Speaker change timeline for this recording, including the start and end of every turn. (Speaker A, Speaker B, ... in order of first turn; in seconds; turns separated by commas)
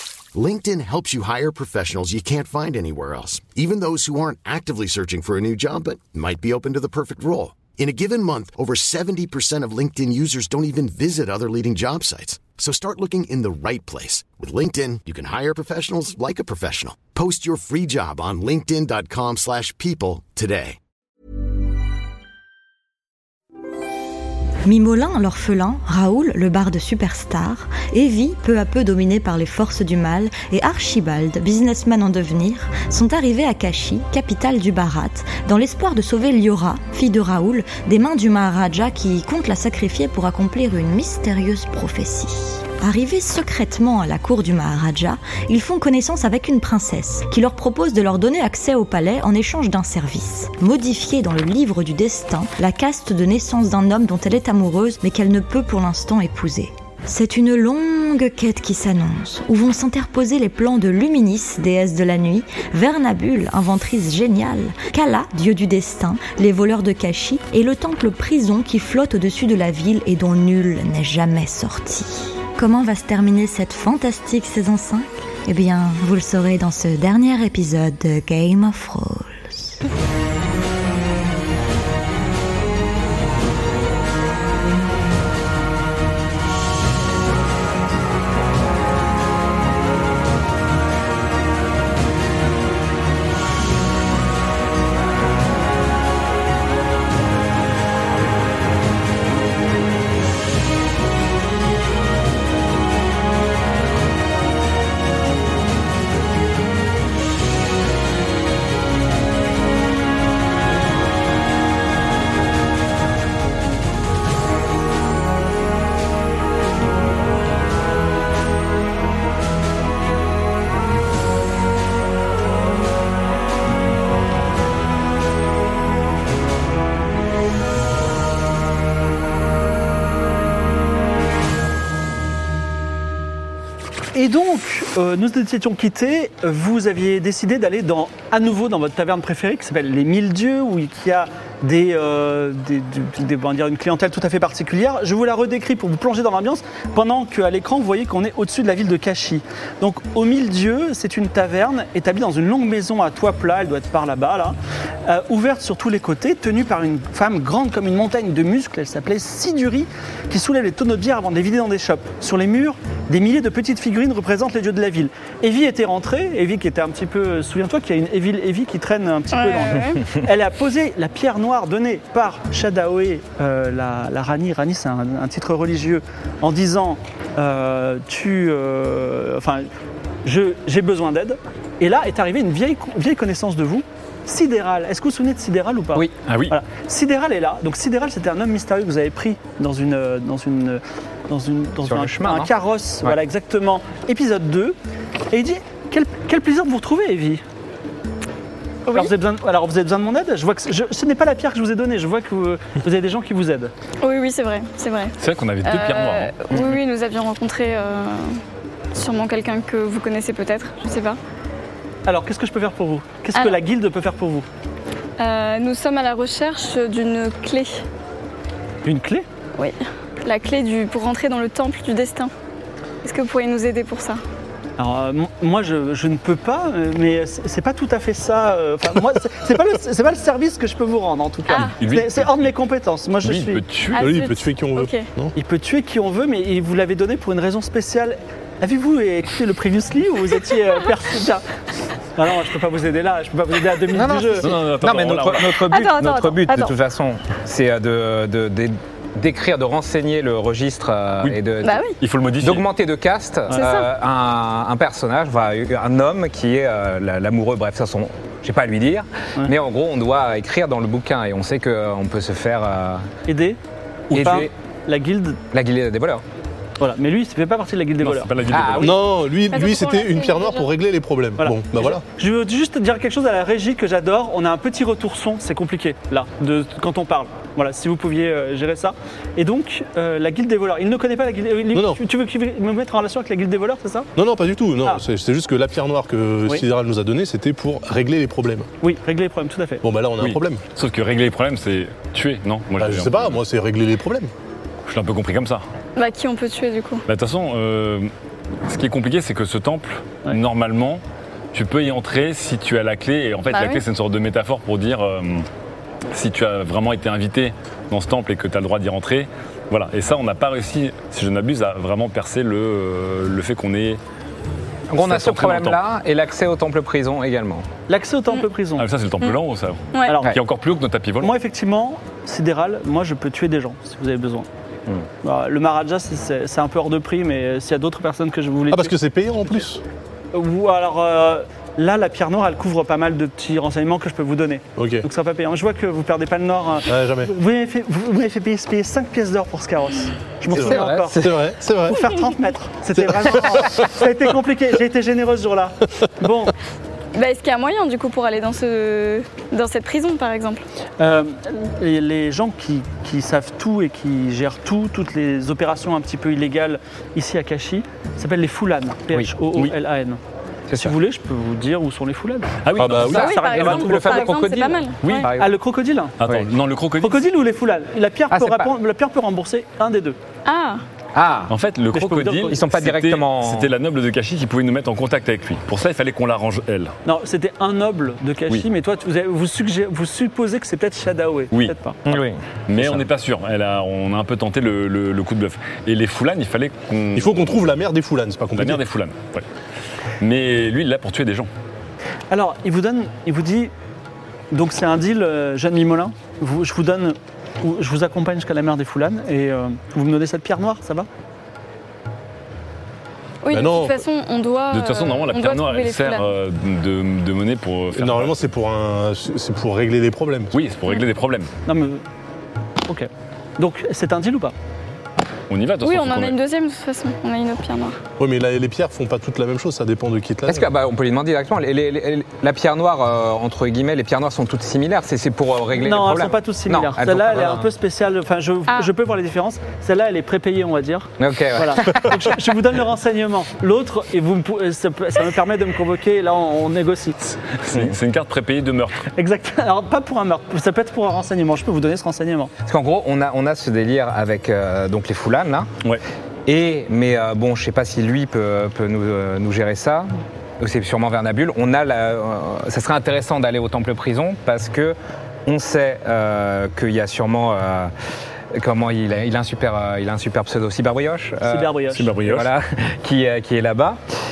Speaker A: 0.3-20.8, Speaker B: 24.6-79.8, Speaker C: 134.1-179.7, Speaker D: 169.3-170.0, Speaker C: 180.2-194.8, Speaker E: 186.3-186.6, Speaker F: 191.8-193.2, Speaker C: 195.3-197.4, Speaker C: 198.9-203.7, Speaker D: 204.0-208.4, Speaker E: 205.2-206.5, Speaker D: 208.9-211.2, Speaker C: 212.1-214.4, Speaker D: 215.2-217.8, Speaker C: 218.8-219.2, Speaker D: 219.6-222.3, Speaker D: 223.0-224.2, Speaker C: 224.8-233.6, Speaker D: 231.5-231.8, Speaker E: 231.5-232.5, Speaker E: 233.2-234.2, Speaker D: 233.9-235.1, Speaker G: 234.0-235.3, Speaker C: 235.3-241.4, Speaker C: 242.2-244.5, Speaker F: 243.9-251.8, Speaker E: 244.4-245.7, Speaker D: 245.7-246.7, Speaker D: 251.6-251.9, Speaker E: 252.0-252.7, Speaker F: 252.4-263.1, Speaker D: 253.5-253.9, Speaker C: 263.3-263.6, Speaker C: 264.1-265.4, Speaker F: 264.1-264.5, Speaker F: 265.5-266.2, Speaker C: 266.8-268.7, Speaker E: 268.0-269.1, Speaker F: 268.5-269.0, Speaker G: 268.8-272.0, Speaker D: 269.4-270.7, Speaker C: 271.4-284.1, Speaker G: 281.7-282.0, Speaker G: 284.1-288.7, Speaker C: 288.8-289.8, Speaker G: 289.8-290.6, Speaker E: 290.2-293.4, Speaker G: 292.8-294.3, Speaker E: 294.9-295.6, Speaker D: 295.9-297.0, Speaker E: 297.1-298.1, Speaker E: 298.6-301.0, Speaker E: 301.5-305.5, Speaker D: 303.5-303.8, Speaker E: 306.1-314.0, Speaker F: 314.9-317.7, Speaker E: 315.0-315.8, Speaker C: 317.9-318.9, Speaker E: 318.8-321.3, Speaker D: 319.9-320.2, Speaker C: 320.1-320.3, Speaker C: 321.2-324.5, Speaker C: 325.2-329.0, Speaker G: 328.7-329.8, Speaker C: 330.3-341.3, Speaker G: 334.8-335.1, Speaker G: 336.9-337.3, Speaker F: 340.5-341.4, Speaker G: 340.5-342.1, Speaker C: 341.9-346.5, Speaker G: 343.0-343.9, Speaker D: 347.1-350.6, Speaker C: 351.0-360.2, Speaker F: 360.7-360.9, Speaker C: 360.8-364.4, Speaker E: 362.6-363.3, Speaker G: 362.8-363.3, Speaker F: 362.8-365.5, Speaker D: 363.1-365.3, Speaker C: 365.3-366.1, Speaker E: 366.2-367.2, Speaker C: 367.0-370.2, Speaker F: 368.3-368.7, Speaker D: 370.4-370.8, Speaker F: 371.1-371.5, Speaker E: 371.5-376.9, Speaker C: 371.9-372.6, Speaker F: 372.5-373.7, Speaker C: 377.1-382.0, Speaker E: 381.5-382.1, Speaker F: 382.1-383.1, Speaker E: 382.7-387.6, Speaker G: 387.1-388.8, Speaker E: 388.5-389.4, Speaker E: 390.2-391.5, Speaker C: 392.3-393.7, Speaker C: 394.5-401.1, Speaker D: 403.4-406.3, Speaker G: 403.5-404.0, Speaker E: 404.7-408.4, Speaker G: 407.9-410.5, Speaker E: 410.5-411.5, Speaker C: 411.6-412.0, Speaker C: 412.9-414.5, Speaker E: 415.5-416.4, Speaker D: 415.8-418.0, Speaker G: 418.2-420.7, Speaker F: 420.5-427.7, Speaker C: 425.8-437.4, Speaker F: 431.2-432.3, Speaker E: 437.5-439.1, Speaker C: 439.1-442.5, Speaker F: 442.6-445.7, Speaker F: 446.4-450.1, Speaker F: 450.6-457.9, Speaker F: 458.5-464.0, Speaker C: 461.4-462.2, Speaker E: 461.9-462.5